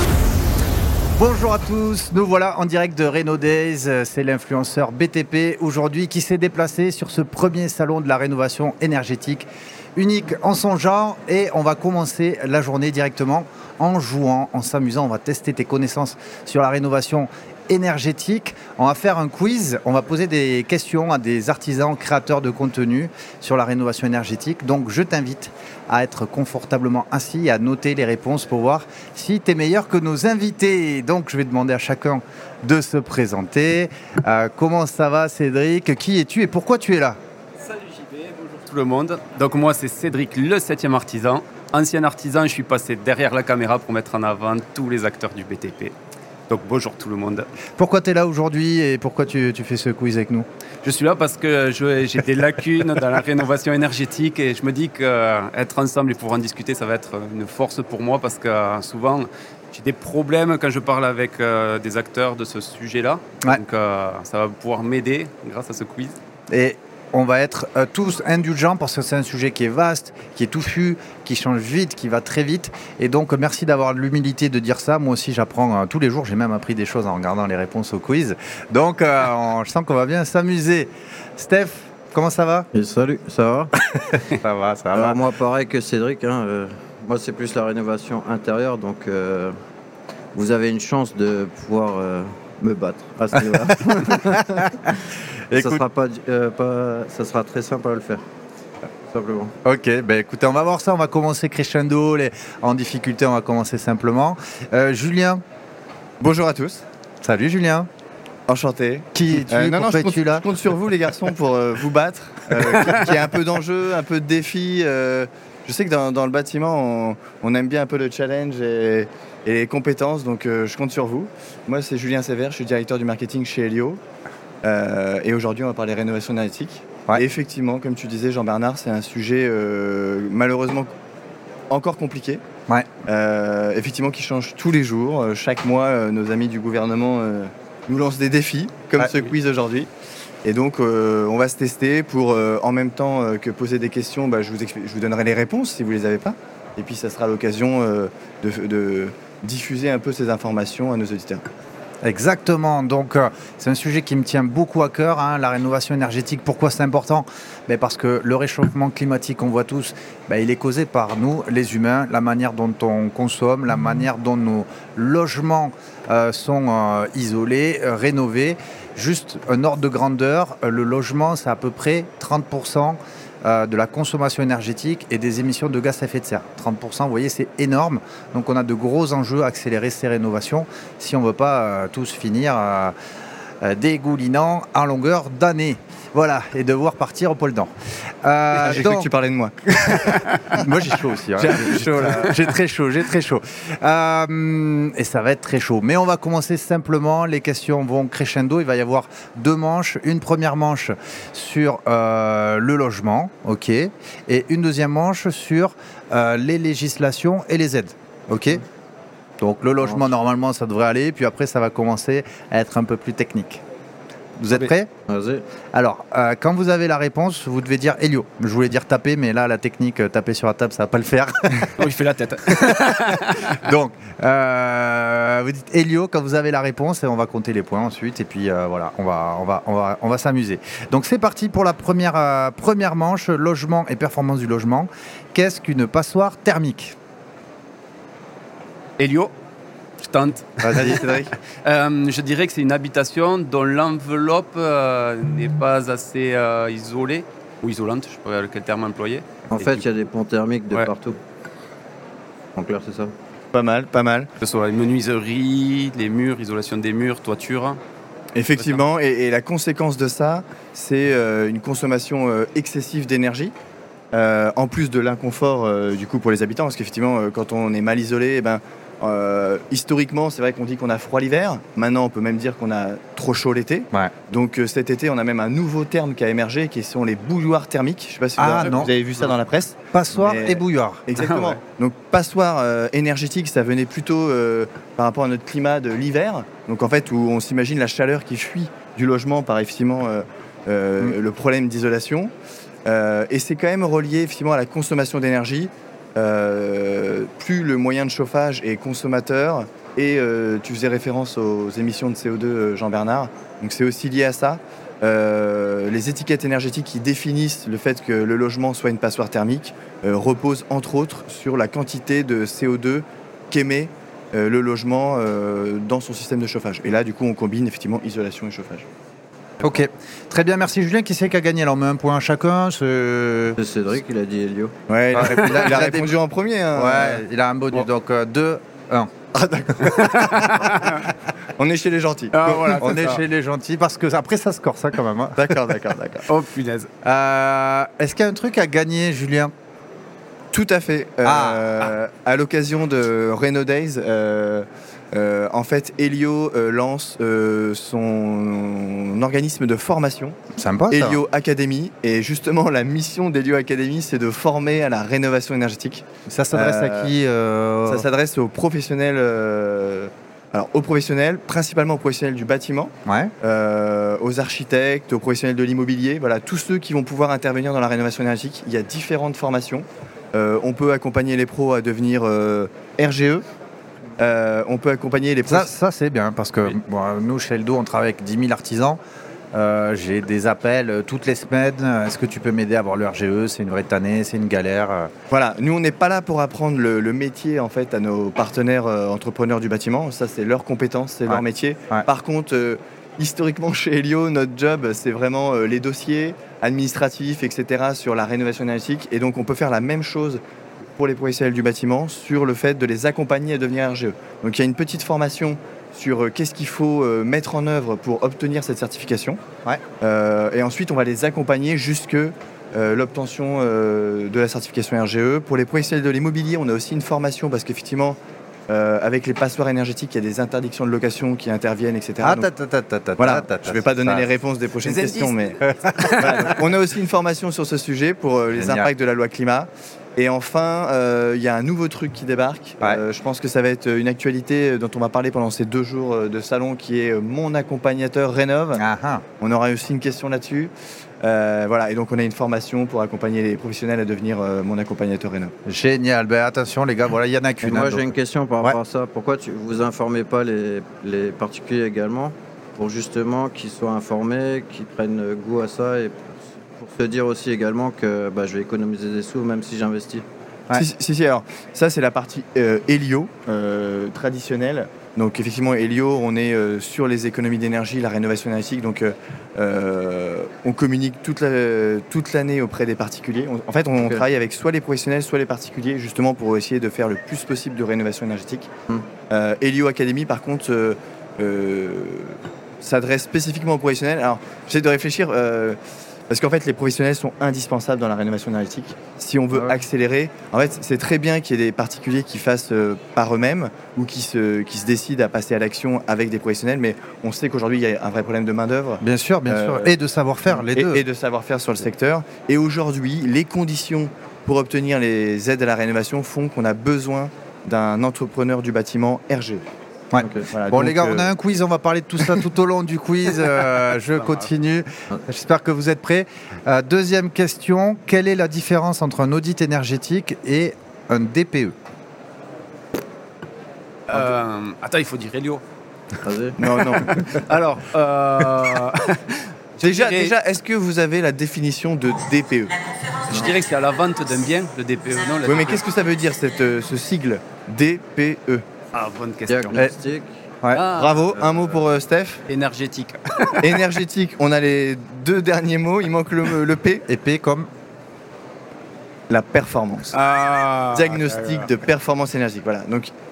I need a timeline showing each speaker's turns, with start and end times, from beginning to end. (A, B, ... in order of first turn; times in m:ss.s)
0:01.1-0:37.2 A
0:37.9-0:45.9 B
0:46.5-0:47.5 B
0:47.8-0:50.5 A
0:50.8-1:06.2 B
1:06.5-1:22.7 A
1:22.7-1:23.8 C
1:23.8-1:25.2 A
1:24.9-1:29.6 C
1:30.3-1:34.9 C
1:33.4-1:34.9 A
1:35.5-1:35.8 A
1:35.5-1:38.2 C
1:39.1-1:39.6 C
1:39.6-1:45.4 A
1:46.2-1:46.8 D
1:47.2-1:47.9 A
1:48.5-2:04.0 D
1:49.2-1:50.5 A
2:04.6-2:10.9 D
2:11.7-2:12.4 D
2:13.0-2:19.9 D
2:20.4-2:31.4 D
2:32.0-3:03.0 A
3:03.6-3:07.7 A
3:08.2-3:09.1 A
3:08.6-3:10.6 D
3:10.1-3:28.6 A
3:11.4-3:12.5 D
3:29.4-3:33.6 A
3:34.4-3:34.9 A
3:35.1-3:35.4 C
3:35.7-3:41.8 A
3:41.8-3:43.6 B
3:42.5-3:57.0 A
3:59.0-3:59.3 B
4:00.0-4:09.8 B
4:00.6-4:01.0 A
4:00.7-4:01.3 D
4:09.5-4:11.2 C
4:12.6-4:13.1 C
4:13.5-4:14.3 D
4:14.4-4:17.8 B
4:18.4-4:23.5 D
4:24.1-4:52.3 D
4:38.4-4:38.9 A
4:38.6-4:39.3 B
4:39.9-4:41.0 A
4:41.1-4:41.6 B
4:52.8-5:18.9 D
5:19.6-5:23.6 A
5:23.6-5:24.8 C
5:24.9-5:27.2 D
5:25.1-5:26.2 A
5:26.8-5:29.1 A
5:29.4-5:30.8 D
5:30.0-5:31.0 B
5:31.6-5:33.0 D
5:32.3-5:33.2 B
5:32.8-5:35.7 A
5:35.4-5:36.2 D
5:36.3-5:36.9 B
5:37.0-5:39.5 A
5:40.5-5:50.4 D
5:41.2-5:41.9 A
5:50.6-5:51.2 A
5:50.9-5:57.1 D
5:56.3-5:58.1 A
5:57.9-6:13.4 D
6:03.0-6:03.3 A
6:14.2-6:15.7 D
6:15.5-6:19.0 A
6:19.5-6:25.1 A
6:25.3-6:40.4 D
6:31.3-6:32.1 A
6:41.0-6:49.4 D
6:50.0-7:02.5 D
7:02.2-7:04.3 A
7:03.2-7:18.8 D
7:04.8-7:06.6 B
7:05.7-7:06.5 A
7:08.6-7:08.9 A
7:18.8-7:19.2 A
7:19.4-7:25.5 D
7:25.7-7:28.8 A
7:27.6-7:40.2 C
7:40.7-7:58.7 D
7:54.0-7:54.2 C
7:59.3-8:05.8 D
8:06.3-8:19.9 D
8:09.5-8:09.8 C
8:19.0-8:21.0 A
8:20.6-8:29.6 D
8:30.1-8:41.8 A
8:30.2-8:30.5 C
8:30.5-8:31.3 D
8:44.1-8:45.6 B
8:46.2-8:46.7 C
8:46.6-8:47.2 D
8:47.0-8:50.4 B
8:49.8-8:52.7 D
8:53.2-8:55.8 B
8:55.4-8:58.6 D
8:58.9-8:59.8 B
8:59.5-9:00.4 C
9:00.7-9:01.4 B
9:00.9-9:02.4 D
9:01.4-9:01.8 C
9:02.5-9:03.9 B
9:03.6-9:07.0 D
9:07.1-9:07.7 A
9:09.3-9:10.2 D
9:10.1-9:11.7 B
9:10.9-9:13.1 D